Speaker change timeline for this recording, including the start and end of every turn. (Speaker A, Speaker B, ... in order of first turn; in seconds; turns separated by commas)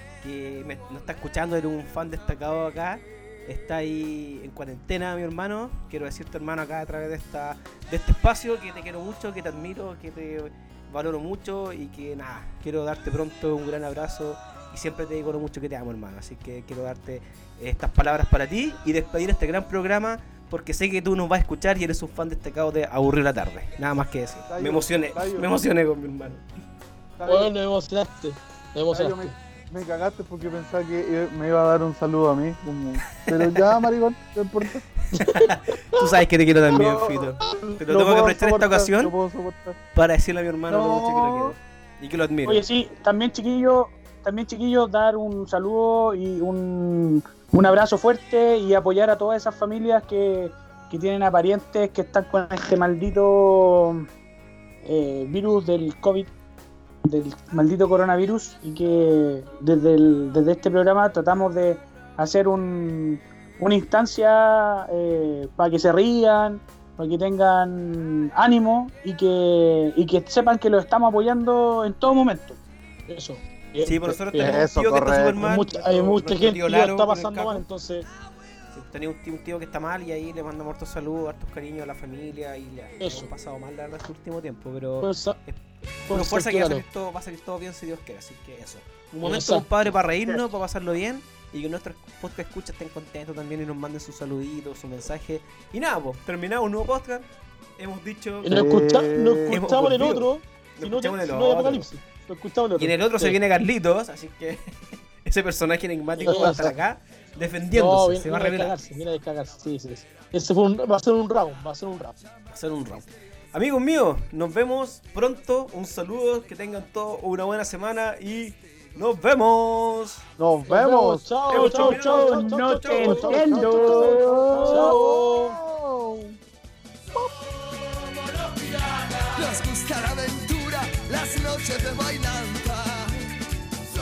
Speaker A: 0.2-26.4, Speaker B: 24.5-25.6, Speaker B: 27.2-27.5, Speaker C: 27.3-29.4, Speaker B: 28.9-34.9, Speaker A: 33.3-33.8, Speaker C: 35.1-35.5, Speaker A: 35.2-39.1, Speaker B: 36.7-39.8, Speaker A: 39.9-42.6, Speaker B: 40.7-41.6, Speaker D: 42.5-54.1, Speaker D: 54.8-56.3, Speaker D: 57.0-72.6, Speaker C: 73.1-74.6, Speaker A: 73.8-77.7, Speaker B: 74.4-75.4, Speaker C: 75.4-78.1, Speaker A: 78.7-85.6, Speaker C: 83.0-83.3, Speaker C: 85.0-85.4, Speaker C: 86.1-86.8, Speaker A: 86.1-98.5, Speaker C: 89.2-90.4, Speaker C: 98.4-103.4, Speaker B: 98.5-99.7, Speaker A: 99.5-101.9, Speaker A: 102.8-104.7, Speaker A: 105.2-108.8, Speaker C: 106.2-106.8, Speaker C: 107.7-112.2, Speaker A: 112.5-120.2, Speaker B: 120.4-121.3, Speaker C: 120.7-125.6, Speaker A: 121.5-124.1, Speaker D: 121.5-125.0, Speaker B: 123.0-126.4, Speaker E: 128.4-133.3